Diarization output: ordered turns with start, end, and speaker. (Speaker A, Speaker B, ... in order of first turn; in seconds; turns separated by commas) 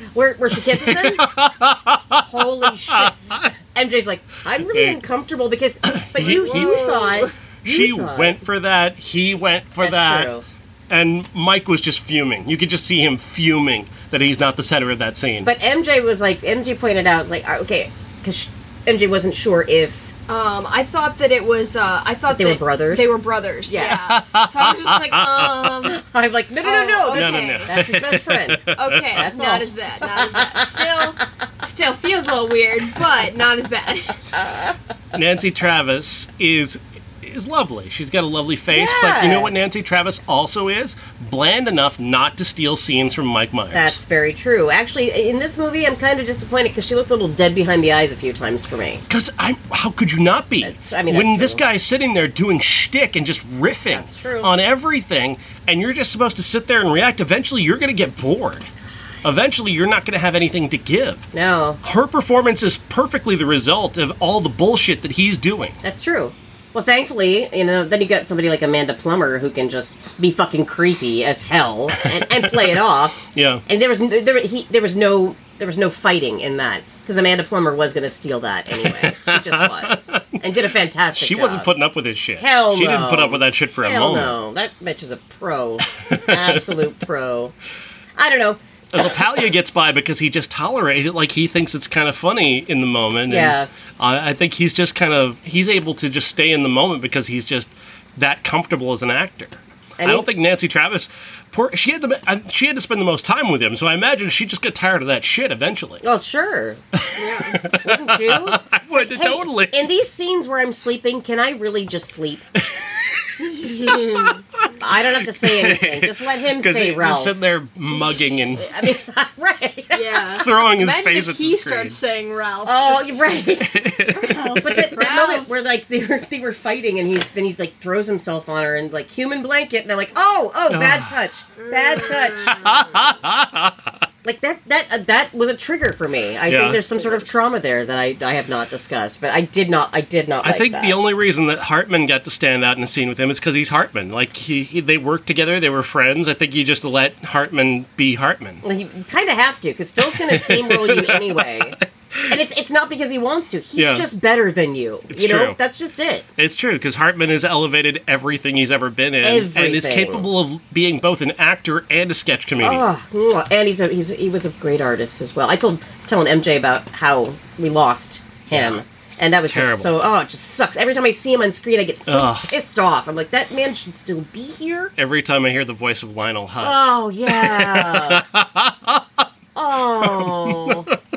Speaker A: 0.1-1.4, Speaker B: 0.6-3.5, Speaker A: 2.2-3.1, Speaker A: 3.7-8.4, Speaker B: 4.6-5.0, Speaker B: 5.8-6.9, Speaker C: 6.2-7.3, Speaker B: 7.7-10.3, Speaker A: 9.8-10.4, Speaker B: 10.9-15.5, Speaker A: 15.4-20.1, Speaker C: 20.3-26.0, Speaker A: 22.3-23.1, Speaker A: 23.7-24.1, Speaker B: 24.0-25.9, Speaker A: 25.8-31.1, Speaker C: 26.6-27.7, Speaker B: 27.1-29.2, Speaker C: 28.8-34.2, Speaker A: 34.4-34.7, Speaker B: 35.1-44.0, Speaker A: 38.7-39.5, Speaker A: 43.7-49.0, Speaker B: 49.1-58.7, Speaker A: 50.6-51.6, Speaker A: 53.9-54.5, Speaker B: 59.2-61.2, Speaker A: 61.3-61.8, Speaker B: 61.8-65.8, Speaker A: 65.8-81.7, Speaker B: 72.0-72.8, Speaker B: 73.3-73.6, Speaker B: 78.8-80.4, Speaker B: 81.2-84.4, Speaker A: 82.4-87.5, Speaker B: 86.1-86.7, Speaker A: 88.2-88.6, Speaker B: 88.9-106.0, Speaker A: 93.3-93.7, Speaker A: 100.0-100.3, Speaker A: 106.0-106.8, Speaker B: 106.9-109.9, Speaker C: 107.2-107.6, Speaker A: 107.7-112.4, Speaker B: 112.6-114.3, Speaker C: 113.4-114.4, Speaker A: 114.8-117.4, Speaker B: 115.1-118.7, Speaker A: 118.6-120.2, Speaker C: 119.9-123.4, Speaker B: 120.3-122.0, Speaker A: 122.7-132.9, Speaker B: 123.5-124.9, Speaker C: 124.7-125.5, Speaker B: 130.7-131.1, Speaker C: 131.6-132.8, Speaker B: 132.4-134.0, Speaker A: 134.2-141.0, Speaker B: 136.5-137.0, Speaker B: 140.4-148.6, Speaker A: 148.6-156.2, Speaker B: 150.1-151.6, Speaker B: 153.8-154.1, Speaker B: 155.1-155.6, Speaker B: 156.4-162.9, Speaker A: 159.2-160.3, Speaker A: 162.6-174.9, Speaker B: 168.5-168.8, Speaker B: 169.5-169.9, Speaker B: 172.1-172.5, Speaker B: 175.0-179.3, Speaker A: 176.6-178.2, Speaker A: 179.6-180.9, Speaker B: 180.0-181.0